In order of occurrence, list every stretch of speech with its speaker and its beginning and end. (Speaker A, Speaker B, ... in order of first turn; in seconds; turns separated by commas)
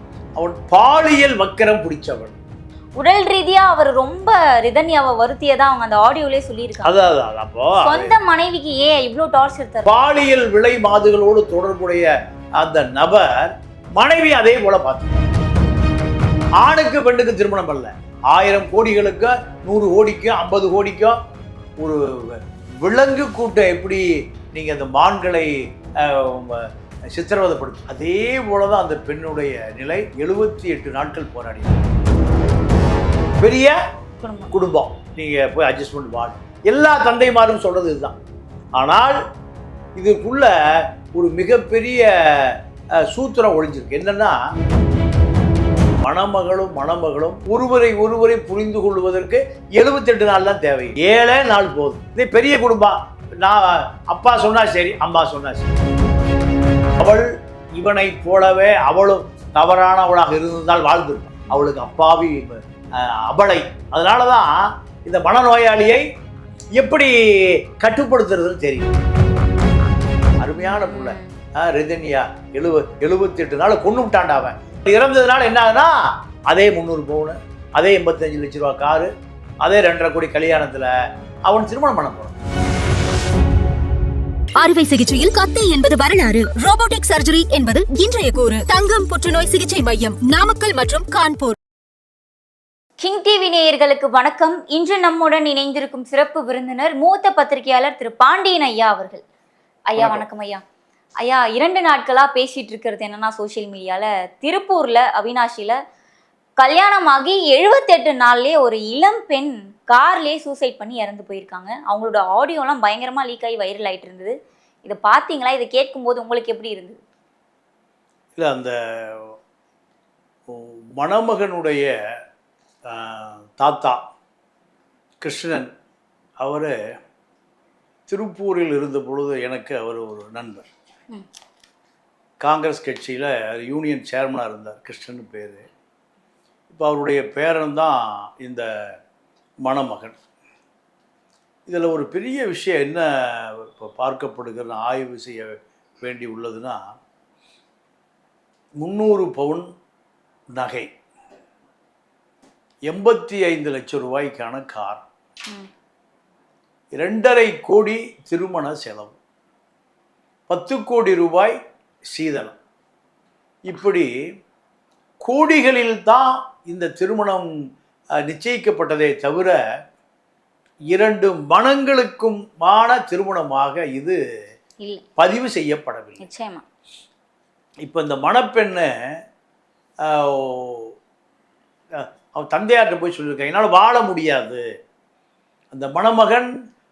Speaker A: 0.4-2.4, Speaker B: 3.0-6.9, Speaker A: 6.8-8.1, Speaker B: 7.8-9.9, Speaker A: 9.8-15.2, Speaker A: 16.6-21.2, Speaker A: 21.8-31.8, Speaker A: 33.4-33.8, Speaker B: 34.2-34.5, Speaker A: 34.5-38.1, Speaker A: 38.8-39.2, Speaker A: 40.0-40.5, Speaker A: 41.1-44.4, Speaker A: 46.0-55.7, Speaker A: 57.0-66.0, Speaker A: 66.8-68.9, Speaker A: 70.4-75.9, Speaker B: 70.6-71.3, Speaker A: 76.5-80.9, Speaker A: 81.5-82.4, Speaker C: 84.5-91.6, Speaker B: 93.0-99.2, Speaker B: 99.9-100.6, Speaker A: 100.0-100.2, Speaker B: 101.2-105.8, Speaker B: 106.6-114.3, Speaker B: 114.8-117.0, Speaker A: 118.3-119.3, Speaker A: 120.5-121.9, Speaker A: 122.9-124.0, Speaker A: 125.2-125.7, Speaker A: 126.4-126.7, Speaker A: 128.1-130.7, Speaker A: 132.4-135.7, Speaker A: 136.7-138.9, Speaker A: 139.6-140.2, Speaker A: 141.7-146.9, Speaker A: 148.8-149.7, Speaker A: 150.5-150.9, Speaker A: 152.9-155.0, Speaker A: 156.9-159.2, Speaker A: 160.5-161.5, Speaker A: 162.1-162.6, Speaker A: 163.7-164.1, Speaker A: 165.2-167.5, Speaker A: 168.2-169.6, Speaker A: 170.9-174.2, Speaker A: 175.2-176.2, Speaker B: 176.2-176.6, Speaker A: 177.8-178.9, Speaker A: 180.0-180.9, Speaker A: 182.0-184.6, Speaker A: 185.7-186.5